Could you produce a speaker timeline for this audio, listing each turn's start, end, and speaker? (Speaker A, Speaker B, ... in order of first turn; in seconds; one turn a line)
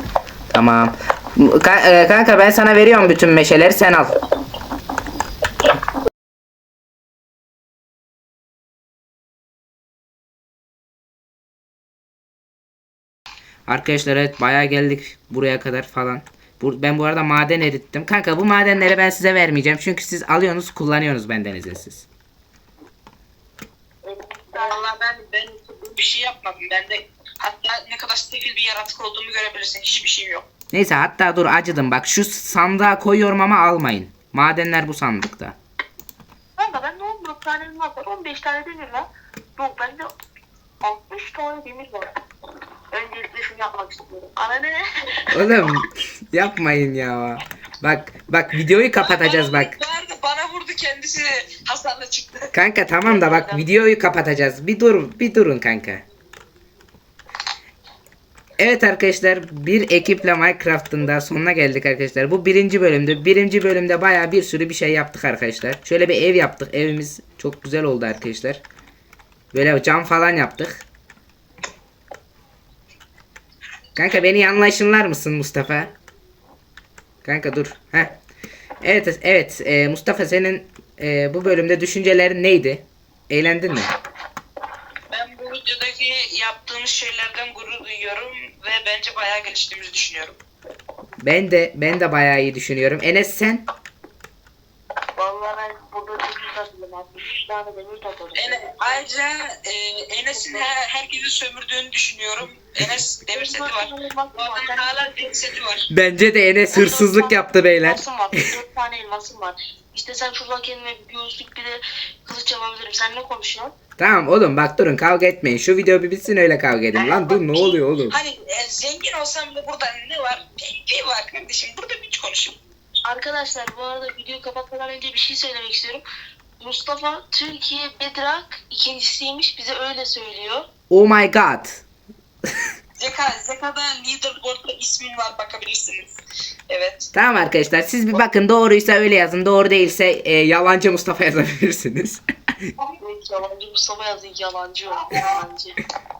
Speaker A: 0.5-4.2
Speaker A: 13.7-22.1
Speaker B: 24.0-24.9
Speaker C: 24.5-30.4
Speaker A: 30.7-35.6
Speaker B: 36.6-40.1
Speaker B: 40.8-42.1
Speaker B: 42.9-44.9
Speaker A: 45.3-49.8
Speaker C: 49.0-52.5
Speaker A: 52.5-56.0
Speaker B: 53.1-53.7
Speaker A: 58.6-68.6
Speaker A: 69.5-70.8
Speaker A: 74.0-75.9
Speaker A: 77.2-78.2
Speaker A: 78.8-83.9
Speaker C: 85.1-90.4
Speaker A: 91.2-93.7
Speaker B: 95.2-99.1
Speaker C: 98.3-105.9
Speaker B: 100.3-100.7
Speaker B: 103.3-105.1
Speaker A: 105.9-108.4
Speaker B: 106.7-113.7
Speaker A: 114.0-118.2
Speaker C: 117.1-122.6
Speaker B: 123.0-126.0
Speaker B: 126.6-130.7
Speaker A: 130.9-131.8
Speaker C: 133.0-136.1
Speaker C: 136.7-137.1
Speaker A: 137.1-142.2
Speaker B: 143.0-145.8
Speaker C: 145.1-145.4